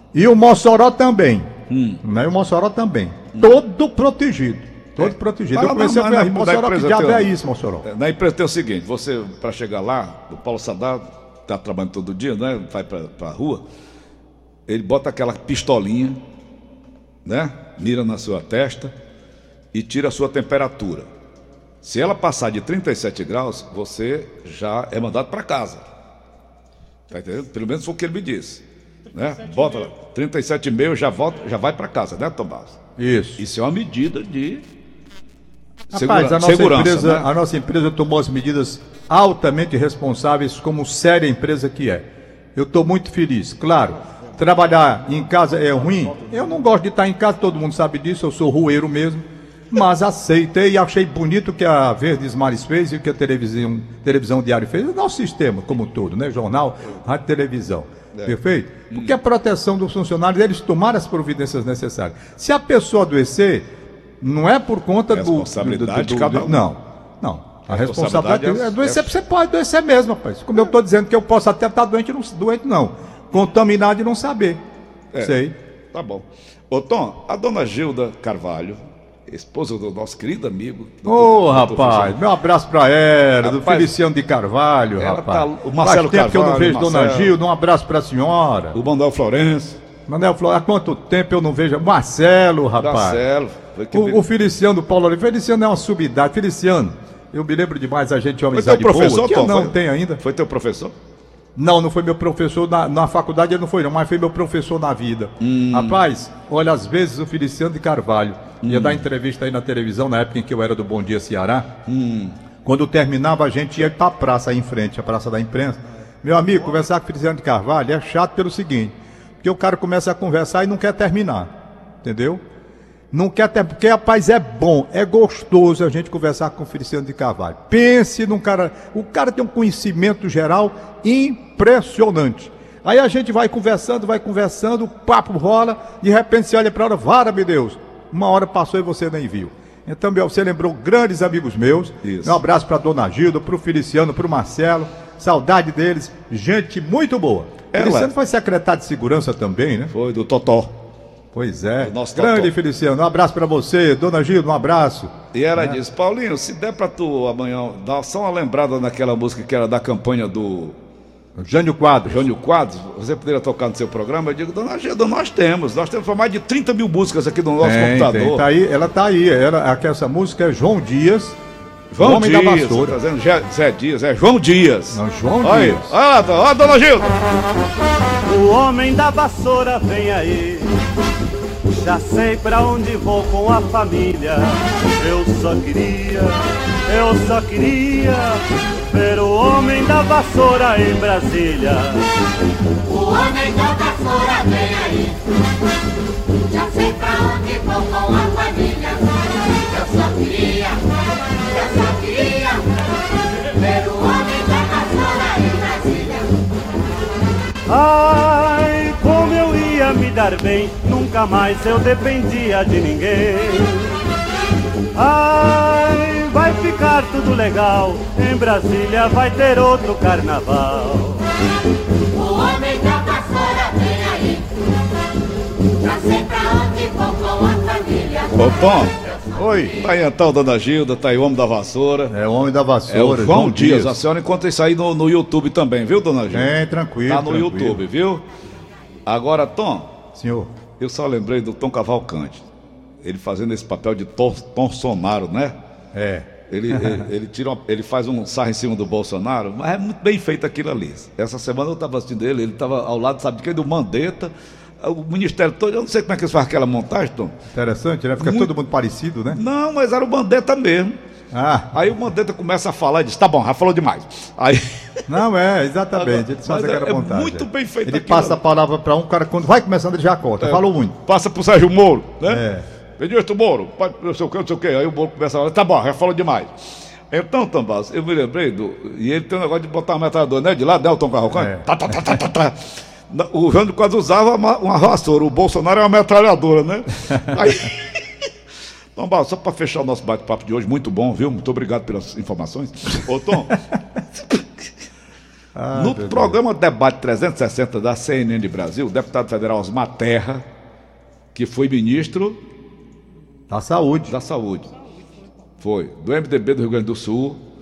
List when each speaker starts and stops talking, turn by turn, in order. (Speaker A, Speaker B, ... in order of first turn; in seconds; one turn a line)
Speaker A: 0.1-1.5
Speaker B: 1.7-2.0
Speaker A: 2.0-7.8
Speaker B: 5.0-13.6
Speaker B: 14.7-16.2
Speaker B: 17.2-18.9
Speaker B: 19.7-21.1
Speaker B: 21.8-25.8
Speaker B: 27.1-32.8
Speaker A: 33.0-33.4
Speaker B: 33.4-34.6
Speaker B: 35.9-37.3
Speaker A: 35.9-63.7
Speaker A: 64.2-74.6
Speaker B: 65.1-66.6
Speaker B: 67.7-69.1
Speaker B: 75.1-75.4
Speaker A: 75.2-75.5
Speaker B: 75.9-82.2
Speaker A: 81.0-88.8
Speaker B: 83.4-83.9
Speaker B: 85.0-87.3
Speaker B: 88.8-89.8
Speaker A: 90.1-93.2
Speaker B: 92.8-94.3
Speaker A: 93.9-100.2
Speaker B: 98.5-100.9
Speaker A: 101.6-111.7
Speaker B: 105.4-106.0
Speaker B: 108.6-109.0
Speaker B: 111.9-112.4
Speaker A: 112.6-121.5
Speaker A: 122.0-122.4
Speaker A: 123.1-149.9
Speaker B: 142.0-142.4
Speaker B: 147.7-148.1
Speaker B: 149.9-150.8
Speaker A: 151.3-155.8
Speaker B: 151.8-152.5
Speaker B: 155.3-160.8
Speaker A: 161.4-162.3
Speaker B: 162.1-168.4
Speaker A: 167.6-171.4
Speaker B: 171.9-177.2
Speaker A: 172.0-173.0
Speaker A: 174.9-175.9
Speaker C: 178.3-180.7
Speaker D: 178.3-179.8
Speaker C: 181.7-186.4
Speaker D: 181.9-182.2
Speaker D: 182.8-183.2
Speaker C: 186.9-192.0
Speaker D: 192.9-195.2
Speaker D: 196.5-200.8
Speaker D: 201.5-202.6
Speaker D: 203.5-206.3
Speaker C: 207.7-213.9
Speaker C: 214.9-221.2
Speaker D: 216.0-217.0
Speaker D: 218.5-219.2
Speaker D: 222.1-224.4
Speaker D: 225.8-228.3
Speaker B: 228.3-228.9
Speaker A: 229.3-229.8
Speaker B: 229.7-232.1
Speaker A: 232.1-234.0
Speaker B: 232.9-236.6
Speaker A: 236.3-237.8
Speaker B: 237.1-238.2
Speaker B: 239.1-239.9
Speaker A: 240.1-240.5
Speaker B: 240.8-242.4
Speaker B: 243.0-245.6
Speaker A: 245.9-247.1
Speaker B: 246.5-257.4
Speaker A: 257.5-259.4
Speaker B: 258.2-258.5
Speaker B: 259.3-261.0
Speaker A: 261.3-261.7
Speaker B: 261.7-265.1
Speaker A: 265.1-270.9
Speaker B: 265.9-268.4
Speaker B: 270.4-272.4
Speaker A: 272.3-272.6
Speaker B: 273.0-276.5
Speaker B: 277.1-288.0
Speaker A: 281.4-281.6
Speaker B: 288.9-293.6
Speaker B: 294.2-294.6
Speaker A: 295.6-296.4
Speaker B: 295.7-300.4
Speaker B: 301.3-302.4
Speaker A: 303.5-304.1
Speaker B: 304.1-304.7
Speaker B: 305.6-307.4